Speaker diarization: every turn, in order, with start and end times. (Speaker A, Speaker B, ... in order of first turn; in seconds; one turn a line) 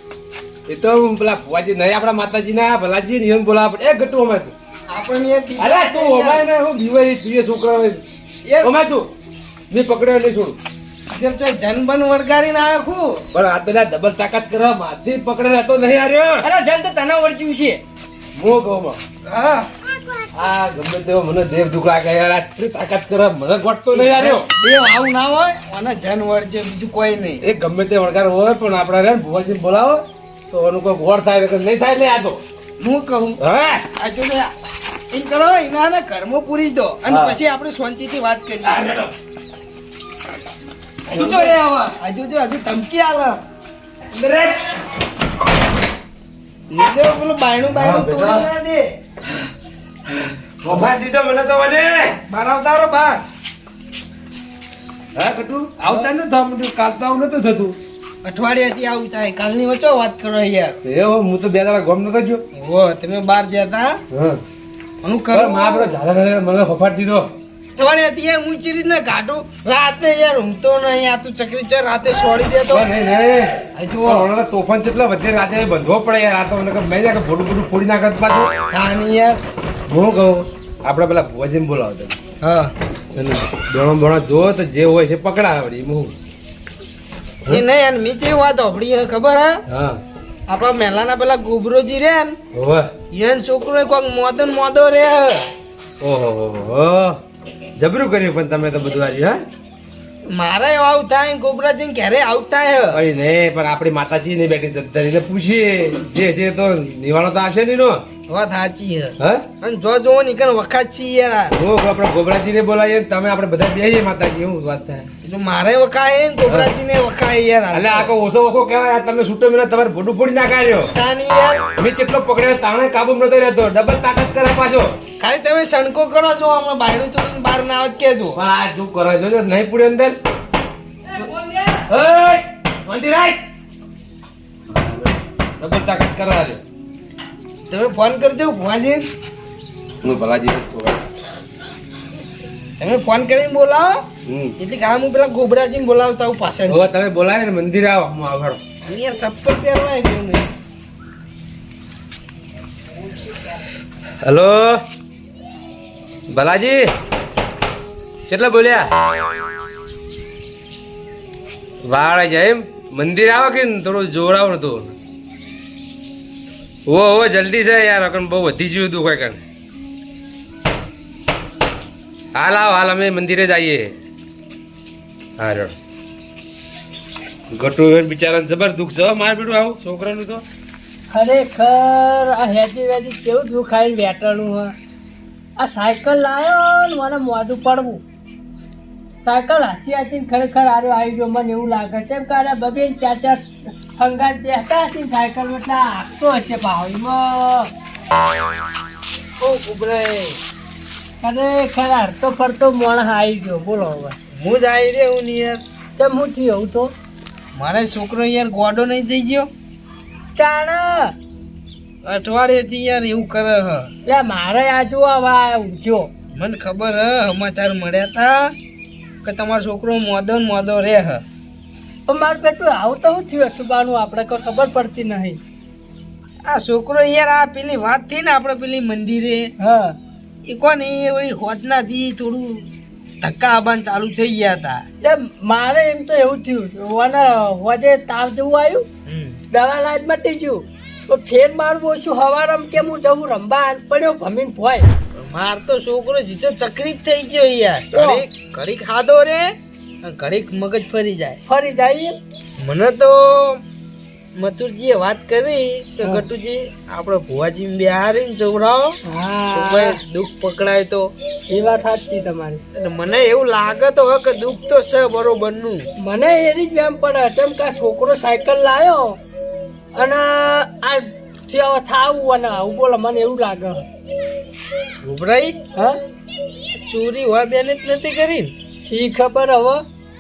Speaker A: 0.7-4.5
Speaker B: 4.9-6.5
Speaker A: 5.6-8.0
Speaker B: 8.4-8.8
Speaker A: 8.6-9.1
Speaker A: 9.7-10.6
Speaker B: 11.1-13.2
Speaker A: 13.3-16.5
Speaker C: 16.4-17.8
Speaker A: 18.4-19.0
Speaker B: 19.3-19.7
Speaker A: 20.4-24.4
Speaker B: 23.9-27.4
Speaker A: 27.4-32.4
Speaker B: 32.8-33.4
Speaker A: 33.4-33.8
Speaker B: 34.0-34.5
Speaker B: 35.1-38.9
Speaker A: 37.1-37.4
Speaker A: 38.6-39.1
Speaker B: 41.1-41.4
Speaker A: 41.1-41.5
Speaker C: 41.1-41.9
Speaker B: 42.0-43.4
Speaker A: 44.1-44.5
Speaker B: 46.7-48.9
Speaker A: 47.8-48.5
Speaker A: 50.6-52.1
Speaker B: 52.3-53.2
Speaker A: 55.2-57.8
Speaker B: 55.9-56.1
Speaker B: 58.2-60.8
Speaker A: 60.8-62.4
Speaker B: 62.5-64.0
Speaker A: 64.1-64.4
Speaker B: 65.0-66.0
Speaker A: 65.3-67.3
Speaker B: 67.8-72.9
Speaker A: 72.7-78.5
Speaker B: 73.8-74.3
Speaker B: 78.7-79.4
Speaker A: 79.9-82.2
Speaker B: 82.4-82.7
Speaker A: 83.2-86.1
Speaker B: 87.5-89.6
Speaker A: 89.7-90.0
Speaker B: 90.5-92.4
Speaker A: 92.5-92.9
Speaker B: 93.1-95.5
Speaker A: 96.0-97.2
Speaker A: 97.8-99.4
Speaker B: 100.3-103.0
Speaker A: 102.9-108.0
Speaker B: 108.3-111.5
Speaker A: 109.2-109.5
Speaker A: 111.6-115.1
Speaker B: 115.2-118.1
Speaker A: 117.7-120.9
Speaker B: 121.0-121.7
Speaker A: 121.8-124.9
Speaker B: 125.2-128.4
Speaker A: 128.3-130.2
Speaker C: 131.1-131.9
Speaker A: 131.9-133.4
Speaker A: 134.7-136.6
Speaker B: 137.7-139.1
Speaker A: 140.0-141.1
Speaker B: 142.8-144.0
Speaker A: 144.3-144.5
Speaker B: 144.6-146.9
Speaker A: 146.7-148.6
Speaker B: 148.8-150.5
Speaker A: 154.2-154.8
Speaker A: 156.3-156.8
Speaker A: 158.3-158.9
Speaker A: 161.8-164.9
Speaker A: 166.9-169.4
Speaker A: 172.4-173.9
Speaker A: 175.4-175.7
Speaker A: 177.5-180.4
Speaker D: 181.1-184.7
Speaker D: 185.6-188.0
Speaker D: 189.2-197.7
Speaker B: 199.4-200.4
Speaker D: 201.2-204.2
Speaker B: 204.4-205.6
Speaker D: 206.0-206.9
Speaker B: 207.6-209.5
Speaker D: 210.3-211.1
Speaker B: 212.1-213.9
Speaker D: 214.1-216.1
Speaker B: 216.3-218.3
Speaker B: 219.2-221.2
Speaker D: 222.1-225.4
Speaker B: 226.5-229.5
Speaker D: 229.6-230.0
Speaker B: 230.5-232.6
Speaker B: 233.2-234.8
Speaker D: 235.0-238.8
Speaker B: 239.1-239.4
Speaker D: 239.5-244.9
Speaker B: 245.2-249.5
Speaker D: 247.9-248.2
Speaker B: 250.0-251.4
Speaker D: 251.5-252.1
Speaker B: 252.6-253.6
Speaker B: 254.4-259.0
Speaker D: 259.1-260.0
Speaker B: 259.5-261.1
Speaker D: 261.5-262.6
Speaker B: 262.7-265.8
Speaker D: 266.0-269.2
Speaker D: 269.9-273.9
Speaker B: 275.0-275.6
Speaker B: 276.9-278.5
Speaker D: 278.8-279.8